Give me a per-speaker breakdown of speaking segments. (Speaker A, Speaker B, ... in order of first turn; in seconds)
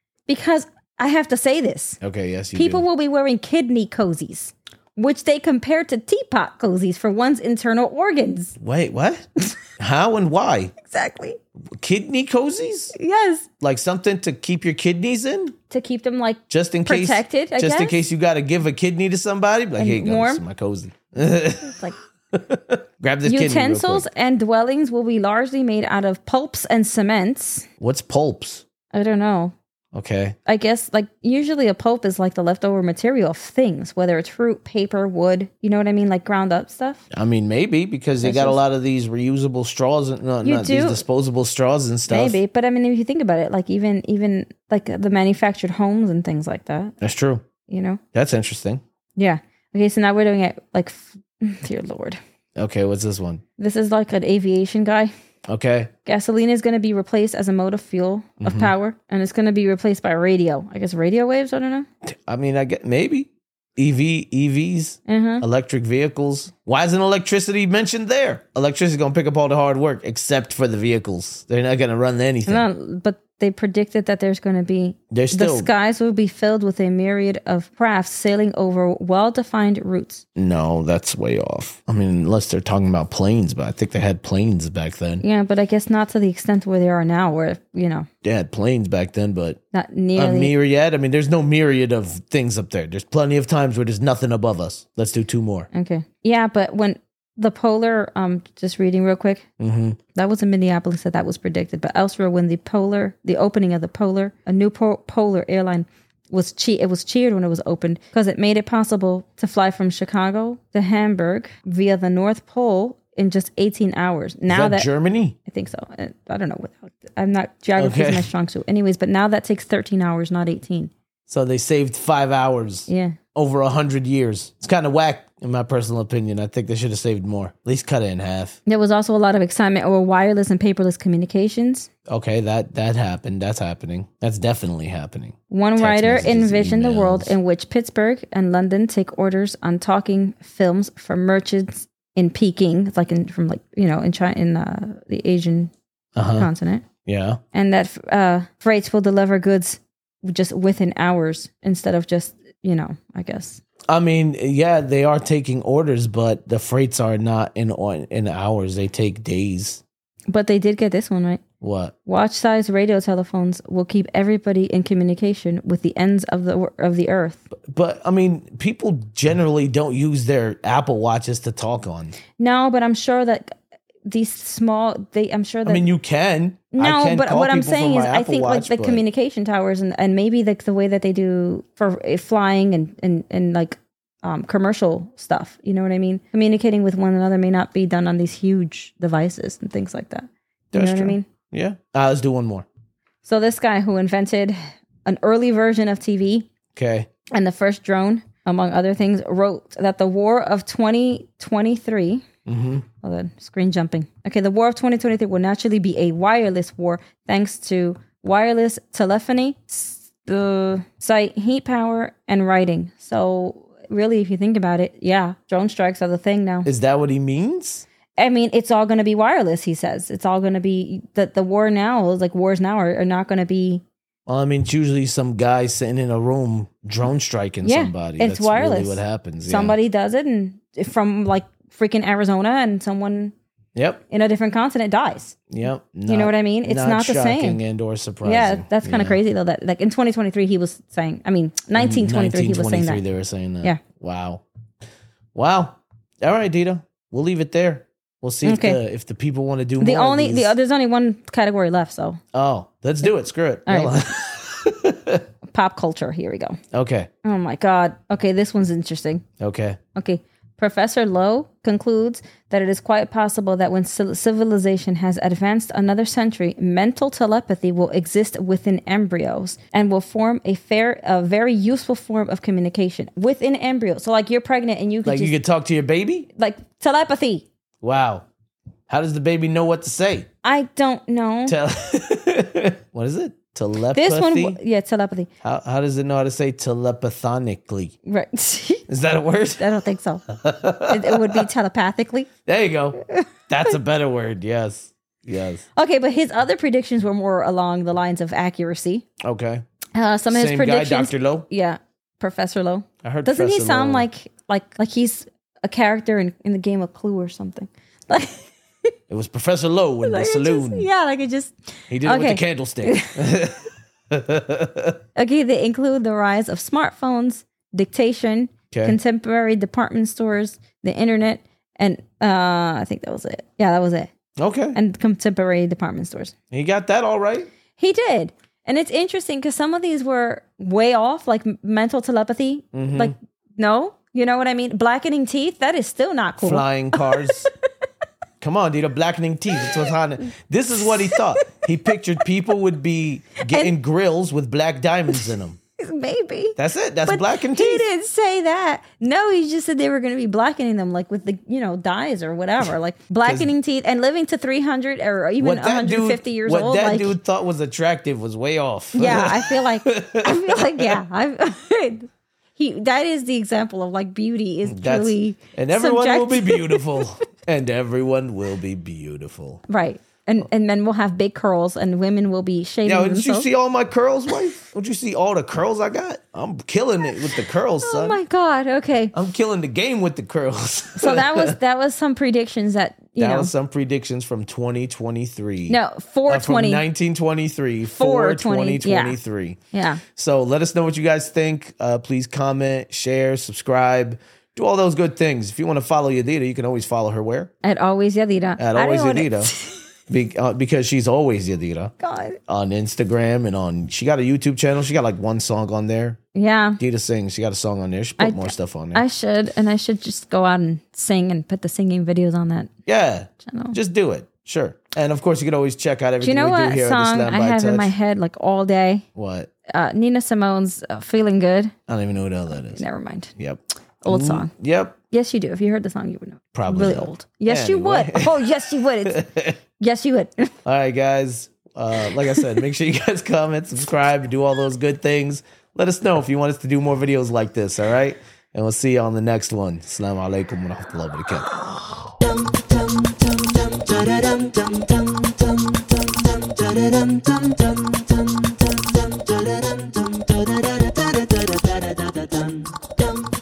Speaker A: 0.3-2.0, 2.5-8.6, 10.8-11.4, 12.9-13.5, 15.7-18.0, 19.8-20.4, 21.6-21.9, 23.2-27.7, 28.9-29.5, 30.5-37.0, 38.2-38.6, 40.4-41.0, 42.1-46.9, 47.7-48.0, 49.2-52.2, 53.6-55.1, 56.0-61.9, 65.0-65.4, 72.5-80.2, 85.2-88.1, 89.7-90.5, 95.7-99.4, 100.1-114.9, 115.5-120.9, 122.9-123.2, 128.7-131.9, 135.5-145.7, 146.3-146.8, 147.5-153.6, 160.3-161.4, 162.1-167.4, 172.4-175.9, 176.7-191.3, 193.2-196.5, 197.3-202.2, 203.0-216.7, 218.2-223.8, 227.6-233.3, 234.1-235.4, 236.1-237.6, 238.2-243.0, 248.4-248.8, 249.8-252.2, 253.7-253.9, 255.5-256.6, 257.2-259.2, 259.9-275.3, 276.4-277.4, 280.4-281.6, 283.9-285.3, 288.1-288.9, 289.6-290.2, 290.9-292.3, 293.0-293.7, 295.7-299.0, 299.9-308.9, 310.0-313.2, 315.1-324.1, 324.7-326.3, 327.8-337.5, 339.6-339.9, 340.8-341.4, 345.1-357.2, 358.9-367.1, 369.7-373.5, 377.8-379.1, 380.9-383.5, 385.7-386.8, 387.9-389.2, 389.7-390.0, 397.6-399.8, 402.0-402.4, 406.3-406.8, 408.2-412.7, 413.4-413.8, 416.2-419.1, 419.7-421.7, 422.7-423.3, 424.0-424.5, 425.1-429.2, 429.8-430.5, 432.1-432.6
Speaker B: 2.0-2.8, 8.6-9.2, 9.8-10.7, 11.8-12.9, 13.6-15.5, 16.5-21.8, 22.3-24.1, 27.8-28.6, 29.9-30.4, 37.1-42.4, 47.0-47.4, 48.1-48.8, 52.6-53.4, 55.5-55.9, 58.4-58.7, 62.0-72.6, 75.1-75.7, 80.3-85.2, 88.2-89.6, 90.1-95.7, 99.6-100.0, 114.5-115.3, 117.8-118.3, 121.3-128.6, 132.1-137.3, 146.2-146.5, 147.0-147.4, 153.9-159.8, 161.6-161.9, 167.5-172.2, 175.7-179.0, 190.7-192.7, 196.7-197.1, 202.4-202.8, 216.6-217.8, 224.3-229.8, 233.7-234.0, 235.5-239.2, 241.8-244.4, 245.3-250.5, 252.3-255.2, 256.7-257.1, 259.4-259.8, 275.0-276.3, 277.8-278.2, 278.9-280.3, 281.5-284.6, 285.4-287.9, 288.9-289.7, 290.3-291.5, 292.4-295.6, 299.2-299.6, 300.3-301.5, 303.0-304.1, 309.1-310.9, 311.9-315.0, 318.7-319.0, 324.4-324.8, 326.5-327.5, 332.7-333.1, 336.4-337.5, 338.4-345.6, 346.6-347.8, 353.2-353.5, 355.4-361.0, 364.6-369.6, 372.8-378.2, 379.1-381.6, 383.2-397.5, 398.6-399.5, 400.1-401.9, 402.5-406.2, 406.8-409.0, 412.9-417.9, 419.1-419.5, 421.9-422.8, 423.4-425.0, 426.5-429.6, 430.6-441.5